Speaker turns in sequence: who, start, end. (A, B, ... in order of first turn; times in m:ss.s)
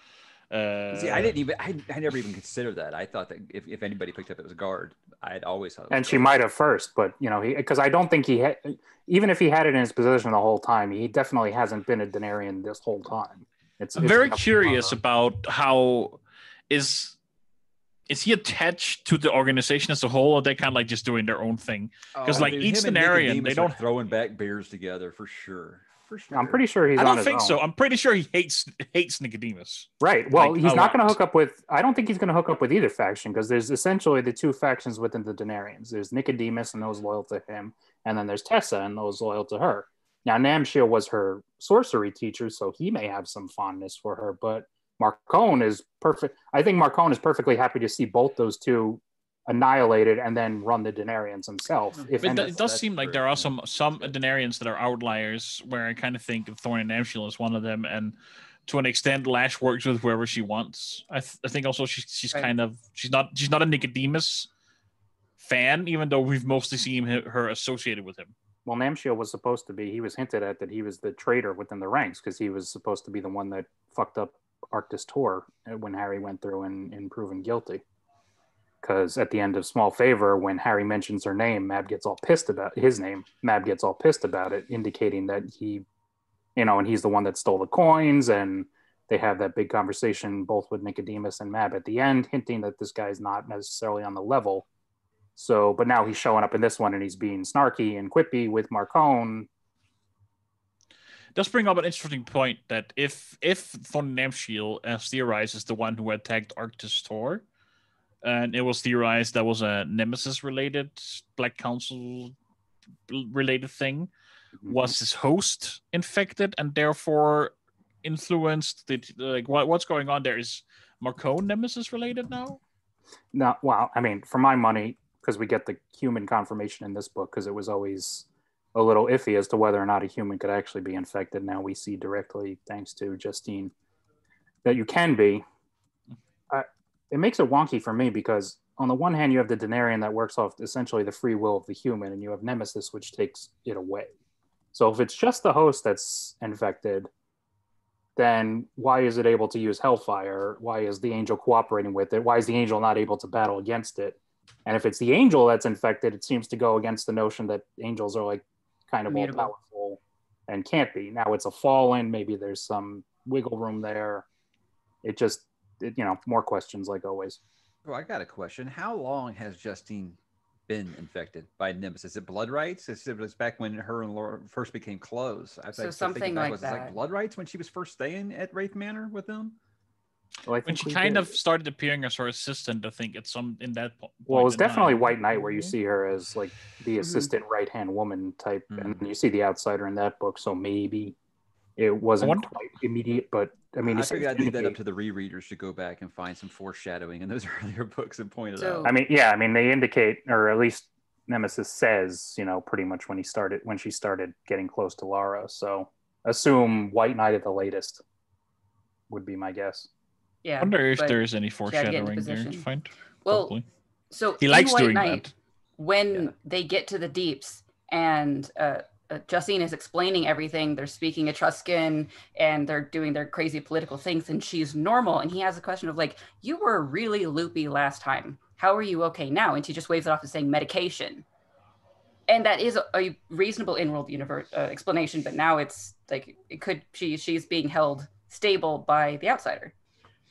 0:00.5-0:01.4 A
0:00.9-0:06.3 B
0:05.9-0:14.9 C
0:14.0-0:17.2 A
0:18.1-0:23.8 A
0:22.1-0:26.6 B
0:26.3-0:27.6 C
0:27.0-0:31.2 A
0:30.0-0:52.8 C
0:51.9-0:54.1 B
0:52.2-1:04.5 A
1:05.4-1:08.3 A
1:08.6-1:17.8 C
1:18.8-1:25.8 C
1:26.6-1:34.7 C
1:35.4-1:39.5 C
1:41.3-1:47.4 A
1:48.2-1:52.3 A
1:53.1-1:54.1 A
1:54.6-1:54.9 C
1:54.7-2:02.6 A
2:03.3-2:13.7 C
2:14.6-2:15.4 C
2:16.5-2:24.1 C
2:24.7-2:27.1 C
2:28.2-2:44.2 C
2:39.1-2:39.5 D
2:45.0-2:47.4 C
2:47.8-2:59.6 B
2:55.8-2:56.9 D
3:00.4-3:01.3 C
3:00.7-3:05.7 A
3:04.3-3:11.1 C
3:07.0-3:07.3 D
3:08.7-3:09.0 B
3:11.8-3:14.8 C
3:12.2-3:12.5 A
3:13.8-3:18.9 B
3:18.6-3:18.9 D
3:18.8-3:28.0 C
3:29.1-3:29.9 C
3:30.4-3:32.6 D
3:30.6-3:33.6 A
3:33.2-3:33.5 D
3:34.1-3:51.2 D
3:34.4-3:35.3 A
3:52.3-3:59.7 D